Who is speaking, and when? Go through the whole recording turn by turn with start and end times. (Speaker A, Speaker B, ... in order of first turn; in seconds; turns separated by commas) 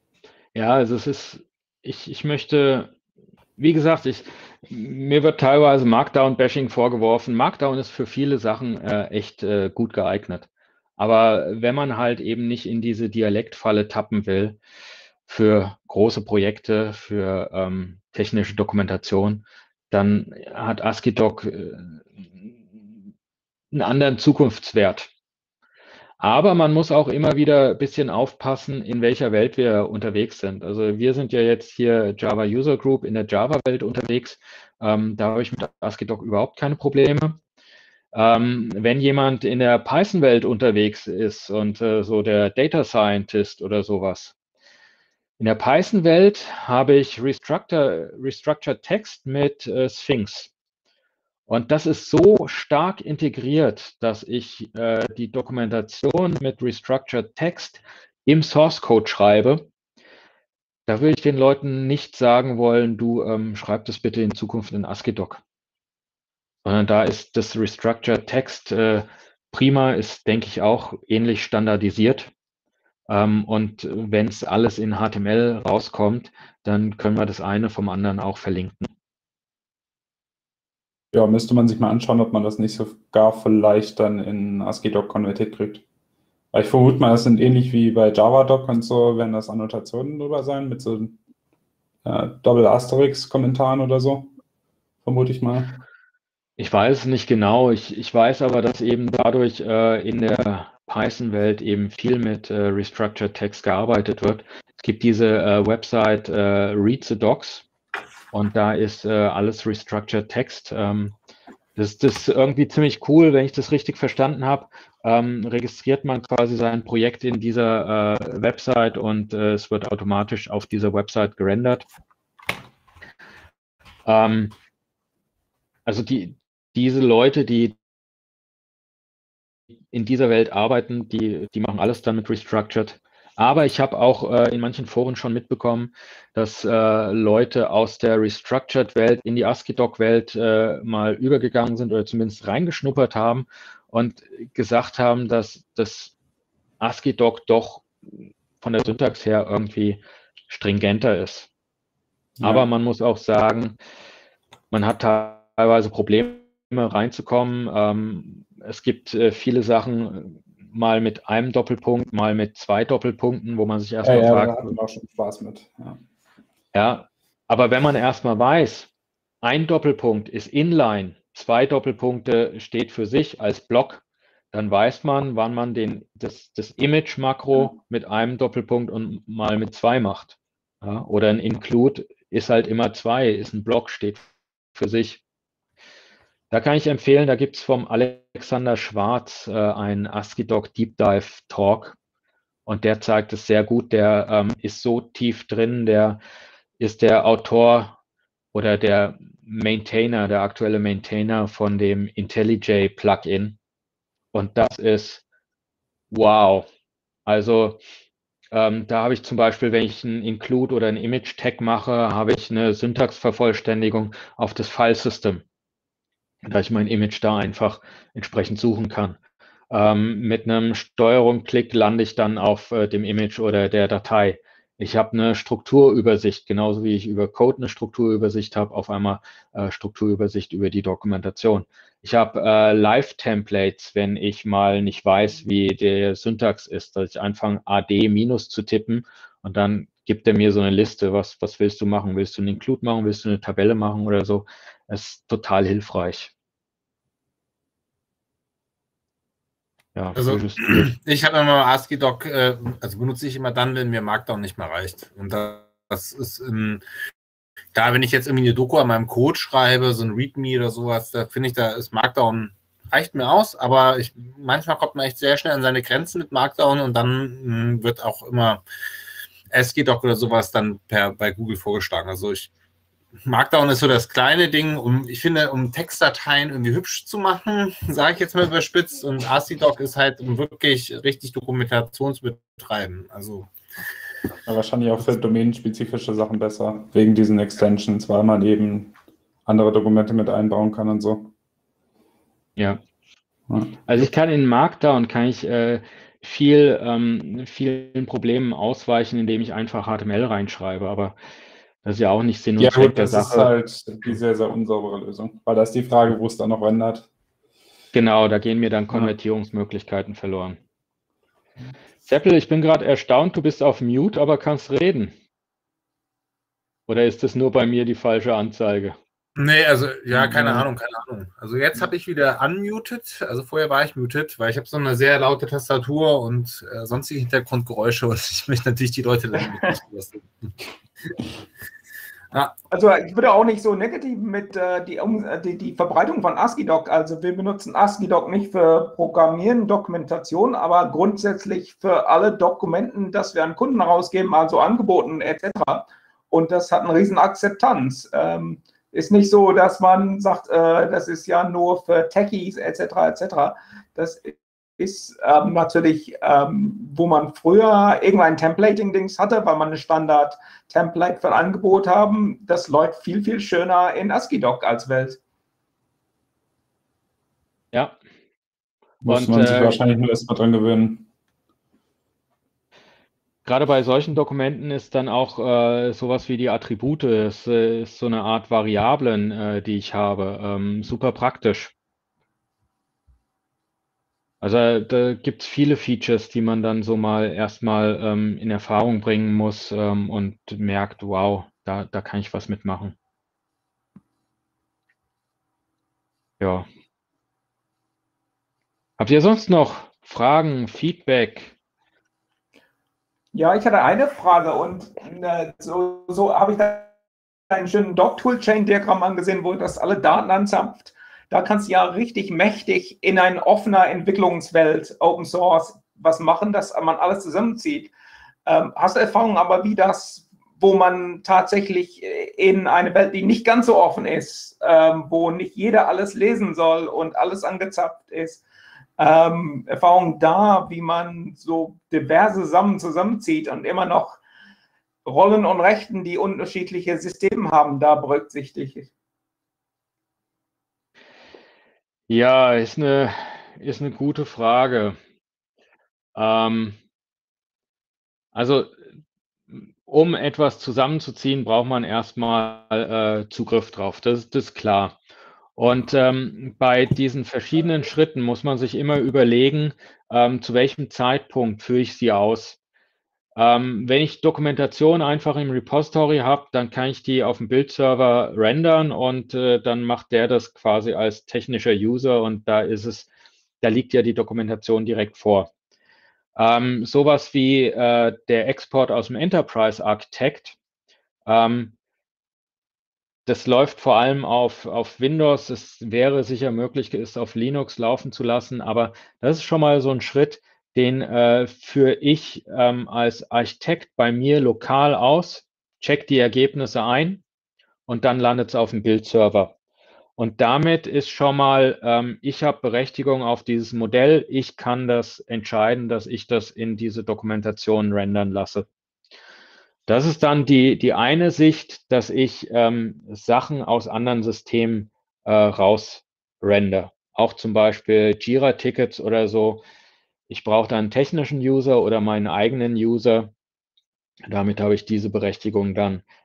Speaker A: 0.6-2.9, Speaker A: 3.6-10.5, Speaker A: 11.0-14.6, Speaker A: 15.3-22.9, Speaker A: 23.7-25.1, Speaker A: 26.2-37.4, Speaker A: 38.1-44.4, Speaker A: 45.4-50.5, Speaker A: 51.5-59.7, Speaker A: 60.9-65.4, Speaker A: 66.7-72.3, Speaker A: 73.1-78.9, Speaker B: 81.1-85.8, Speaker B: 86.5-91.2, Speaker B: 92.0-94.3, Speaker B: 95.0-95.8, Speaker A: 96.6-107.7, Speaker A: 108.3-111.2, Speaker A: 111.8-121.8, Speaker A: 124.1-124.5, Speaker A: 125.9-127.8, Speaker A: 129.9-146.1, Speaker A: 146.8-147.9, Speaker A: 148.6-151.5, Speaker B: 152.4-152.7, Speaker A: 152.4-153.8, Speaker A: 154.7-164.8, Speaker B: 164.0-166.0, Speaker A: 166.7-168.9, Speaker A: 169.4-185.2, Speaker A: 186.5-192.0, Speaker A: 192.7-196.2, Speaker A: 196.8-198.0, Speaker A: 198.5-203.6, Speaker A: 204.3-205.2, Speaker A: 206.1-206.7, Speaker A: 207.3-207.8, Speaker A: 208.5-215.4, Speaker A: 216.4-219.2, Speaker A: 219.7-246.3, Speaker A: 249.9-250.9, Speaker C: 250.2-256.8, Speaker C: 257.7-268.6, Speaker C: 269.5-272.5, Speaker C: 273.3-283.5, Speaker B: 284.5-288.9, Speaker B: 289.5-291.3, Speaker A: 292.6-292.8, Speaker B: 293.5-294.1, Speaker A: 293.9-301.2, Speaker A: 301.8-303.5, Speaker B: 302.6-307.1, Speaker A: 307.9-310.6, Speaker A: 312.1-315.1, Speaker A: 316.9-319.0, Speaker C: 319.4-330.2, Speaker A: 320.1-320.6, Speaker D: 332.7-365.2, Speaker B: 369.0-371.1, Speaker A: 369.1-369.8, Speaker A: 373.4-381.7, Speaker A: 384.4-392.9, Speaker A: 396.4-396.7, Speaker A: 399.0-401.6, Speaker D: 403.3-406.9, Speaker D: 407.5-417.9, Speaker D: 418.5-428.4, Speaker D: 429.0-434.2, Speaker D: 435.1-438.9, Speaker A: 442.1-445.0, Speaker A: 446.1-446.8, Speaker A: 448.3-448.7, Speaker A: 449.5-455.0, Speaker A: 455.6-462.6, Speaker A: 463.4-473.1, Speaker A: 473.6-475.5, Speaker A: 476.4-480.6, Speaker A: 481.3-481.7, Speaker A: 483.3-497.2, Speaker A: 497.9-499.5, Speaker A: 500.2-508.7, Speaker A: 509.9-519.6, Speaker A: 520.3-523.3, Speaker A: 524.3-526.0